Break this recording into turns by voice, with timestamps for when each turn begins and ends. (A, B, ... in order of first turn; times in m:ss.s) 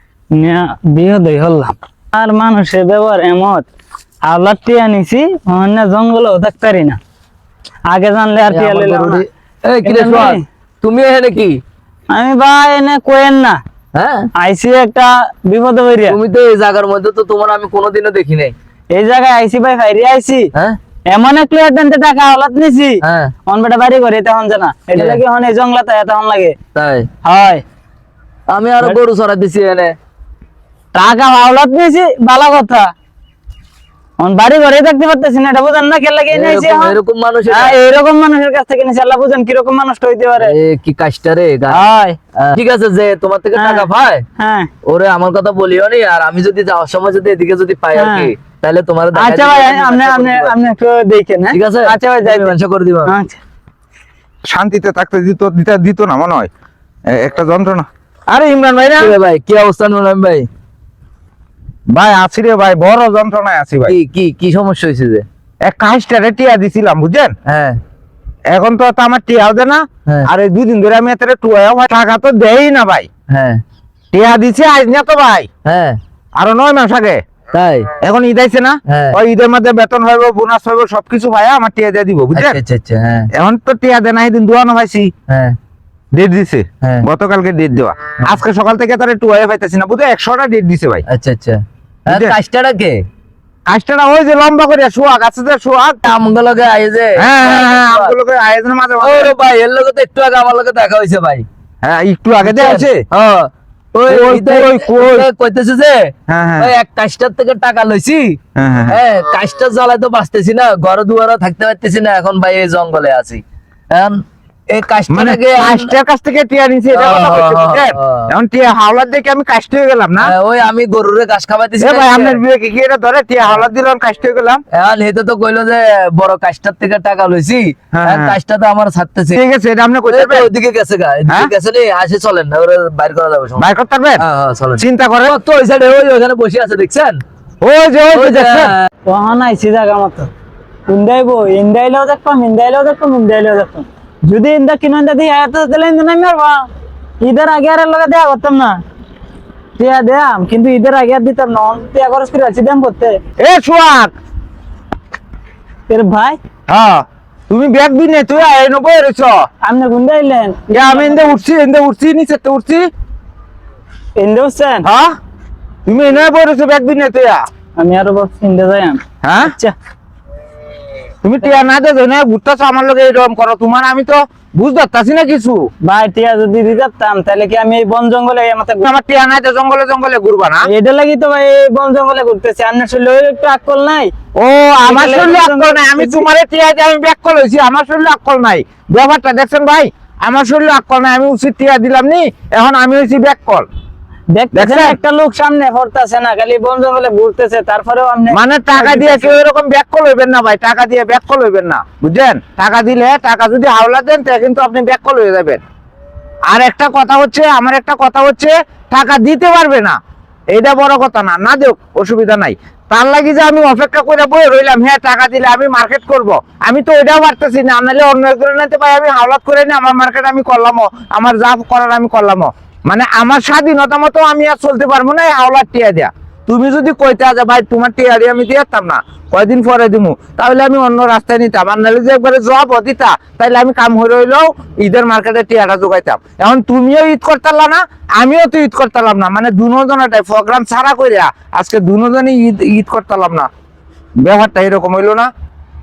0:00.3-0:03.7 A
0:04.2-0:07.0 A
0:07.9-0:09.2 A
0:08.5-0:11.6 B
0:09.8-0:10.4 A
0:12.1-0:13.6 A
0:13.9-0:14.3 B
0:14.4-0:16.2 A
0:16.1-0:18.5 B
0:18.9-0:20.5 A
0:21.1-0:26.6 A
0:23.0-0:23.3 B
0:24.9-0:25.2 B
0:26.7-0:27.1 B
0:27.2-0:27.6 A
0:28.5-0:30.0 B
0:30.9-0:32.9 A
0:34.2-0:37.0 A
0:36.3-0:37.8 B
0:37.5-0:40.5 A
0:40.4-0:41.8 B
0:41.7-0:42.2 A
0:42.4-0:44.2 B
0:43.5-0:44.7 A
0:44.8-0:50.6 B
0:47.9-0:48.3 A
0:49.1-0:52.5 A
0:51.5-0:53.1 B
0:53.0-0:53.4 A
0:54.5-0:56.5 C
0:57.1-0:59.2 C
0:59.0-1:00.5 B
1:01.9-1:03.9 C
1:03.9-1:05.2 B
1:05.6-1:07.3 C
1:07.5-1:07.8 B
1:08.5-1:13.1 C
1:13.3-1:13.6 B
1:14.1-1:15.5 C
1:15.6-1:16.0 B
1:16.4-1:17.2 C
1:17.5-1:17.9 B
1:18.0-1:22.6 C
1:18.9-1:19.2 B
1:22.3-1:23.3 B
1:23.3-1:25.1 C
1:25.3-1:25.5 B
1:26.1-1:31.0 C
1:31.1-1:33.0 B
1:32.1-1:32.3 C
1:33.7-1:36.0 C
1:36.0-1:38.1 B
1:37.2-1:39.3 C
1:39.0-1:41.4 B
1:41.8-1:43.0 C
1:42.4-1:55.9 B
1:44.1-1:45.3 C
1:46.3-1:46.7 C
1:48.6-1:49.0 C
1:55.1-2:00.3 C
1:56.9-1:58.3 B
2:00.2-2:02.4 B
2:01.8-2:04.6 C
2:04.7-2:09.4 B
2:07.9-2:08.4 C
2:09.3-2:10.5 C
2:10.1-2:13.6 B
2:13.6-2:14.2 C
2:14.2-2:17.2 B
2:14.8-2:15.4 C
2:17.6-2:18.7 C
2:18.1-2:18.8 B
2:19.0-2:20.3 A
2:20.9-2:26.6 A
2:27.2-2:28.8 A
2:29.8-2:33.2 A
2:33.4-2:34.1 C
2:35.9-2:36.4 A
2:36.7-2:39.4 C
2:39.6-2:41.4 A
2:40.7-2:42.9 C
2:44.2-2:44.8 A
2:44.8-2:45.1 C
2:45.8-2:47.4 C
2:47.8-2:49.7 A
2:49.2-2:49.5 C
2:51.2-2:55.7 C
2:55.8-2:58.8 A
2:58.8-3:00.7 C
3:00.7-3:04.1 A
3:04.4-3:13.6 C
3:04.8-3:06.2 A
3:14.3-3:19.3 A
3:14.5-3:15.0 C
3:18.3-3:25.6 C
3:26.5-3:30.0 C
3:30.5-4:03.5 C
4:04.2-4:05.3 C